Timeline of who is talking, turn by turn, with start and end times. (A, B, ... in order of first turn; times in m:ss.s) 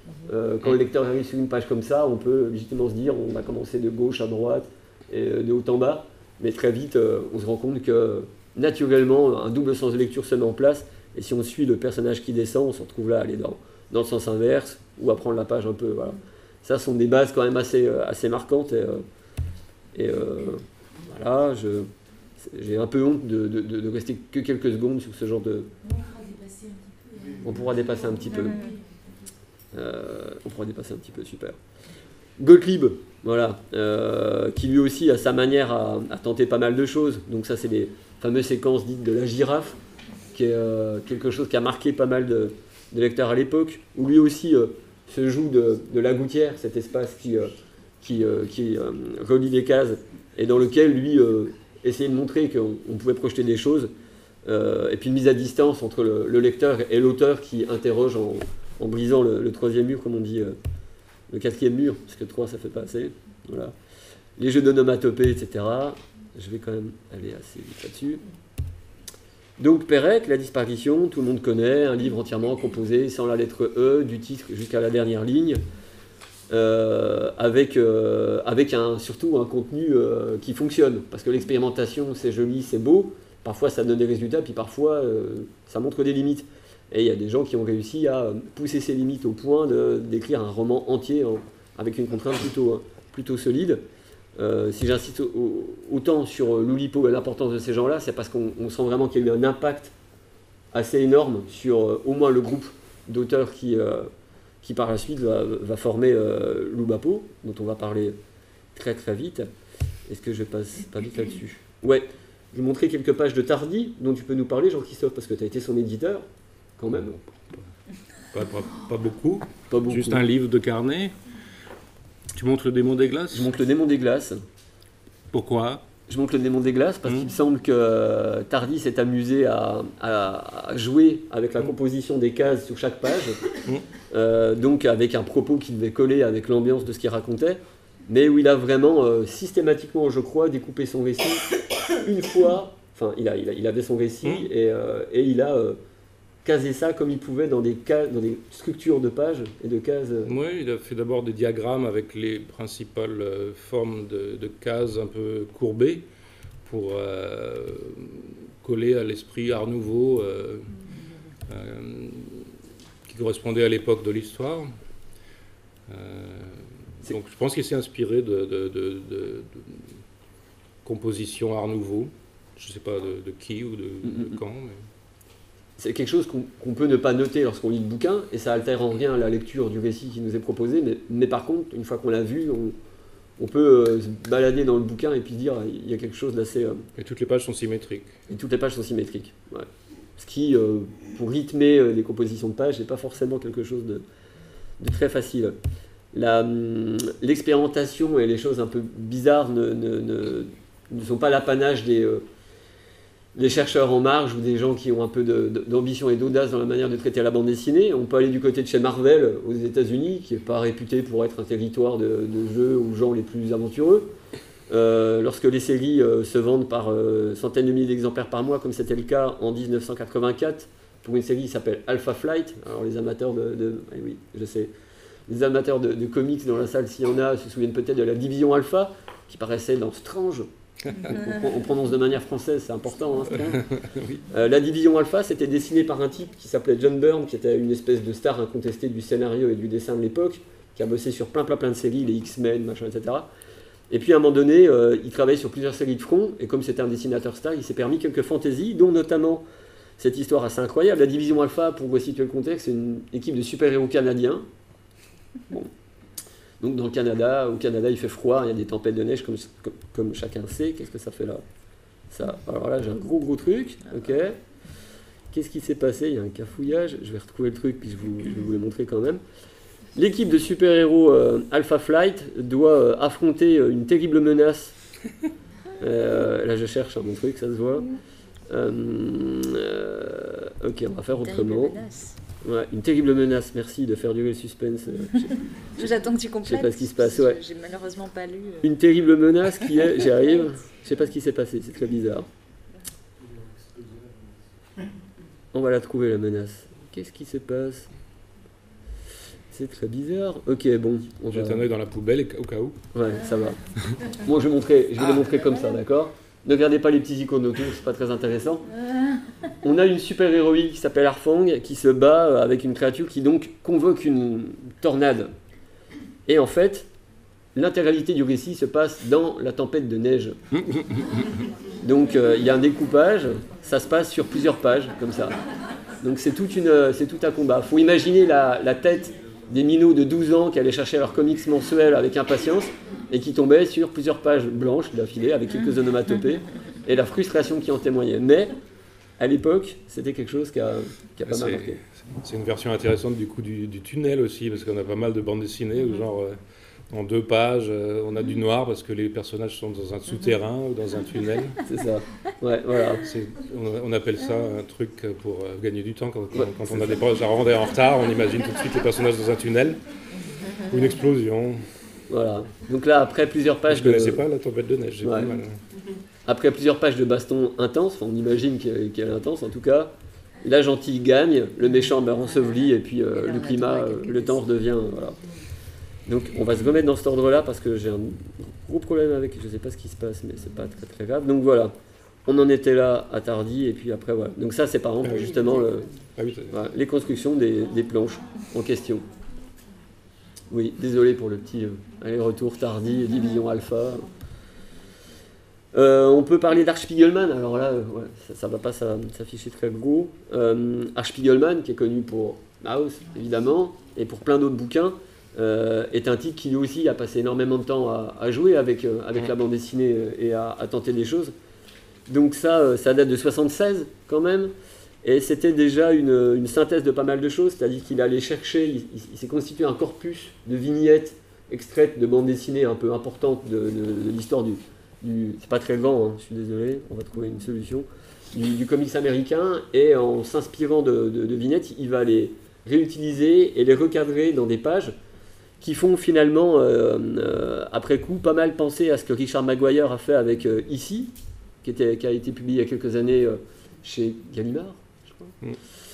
0:00.3-0:19.0 A
0:20.0-0:25.7 A
0:27.4-0:28.6 A
0:29.7-0:31.6 A
0:32.4-0:39.8 A
0:40.3-0:47.5 A
0:48.0-0:53.9 A
0:54.4-1:00.6 A
1:01.3-1:03.7 A
1:04.4-1:08.2 A
1:09.6-1:15.6 A
1:16.5-1:33.8 A
1:34.4-1:39.9 A
1:40.7-1:44.1 A
1:44.6-1:48.2 A
1:48.8-1:49.5 A
1:50.1-1:56.2 A
1:56.8-1:57.2 A
1:57.2-1:57.6 B
1:58.3-2:01.1 B
1:59.7-2:00.2 A
2:02.3-2:03.5 B
2:03.3-2:04.4 A
2:05.3-2:05.9 B
2:06.1-2:13.5 A
2:14.1-2:25.8 A
2:26.4-2:30.3 A
2:30.3-2:36.1 B
2:36.6-2:40.8 B
2:41.5-2:42.5 B
2:43.1-2:44.7 B
2:45.9-2:50.0 B
2:50.8-2:54.8 B
2:54.0-2:54.4 A
2:55.8-3:02.8 A
3:03.4-3:06.9 A
3:07.0-3:08.2 B
3:08.3-3:14.0 A
3:14.8-3:15.6 A
3:16.1-3:22.2 A
3:23.4-3:34.1 A
3:34.7-3:44.7 A
3:45.3-3:53.7 A
3:53.5-3:54.2 B
3:54.3-4:03.3 A
4:03.9-4:09.4 A
4:10.0-4:14.5 A
4:16.6-4:21.4 A
4:22.1-4:24.4 A
4:25.3-4:29.2 A
4:30.0-4:34.7 A
4:35.8-4:37.9 A
4:38.5-4:41.8 A
4:41.2-4:42.2 C
4:42.4-4:45.9 A
4:45.8-4:48.6 C
4:46.4-4:47.4 A
4:48.6-4:52.3 A
4:55.5-4:57.9 A
4:59.5-5:01.7 A
5:01.3-5:02.9 B
5:02.9-5:08.7 A
5:09.6-5:15.3 A
5:16.3-5:16.9 A
5:17.6-5:20.4 A
5:20.6-5:21.0 B
5:21.8-5:25.4 A
5:26.0-5:38.6 A
5:39.2-5:41.8 A
5:41.3-5:46.4 B
5:46.9-5:51.6 B
5:51.6-5:53.1 A
5:53.0-5:59.8 B
5:56.4-5:57.0 A
6:00.5-6:01.7 B
6:02.1-6:04.2 A
6:03.7-6:05.6 B
6:05.0-6:05.4 A
6:06.3-6:15.2 A
6:13.2-6:14.4 C
6:16.1-6:21.7 A
6:22.3-6:25.9 A
6:25.0-6:25.3 B
6:26.2-6:26.5 B
6:26.5-6:29.0 A
6:30.5-6:34.1 A
6:35.7-6:51.3 A
6:52.1-7:15.0 A
7:15.6-7:25.4 A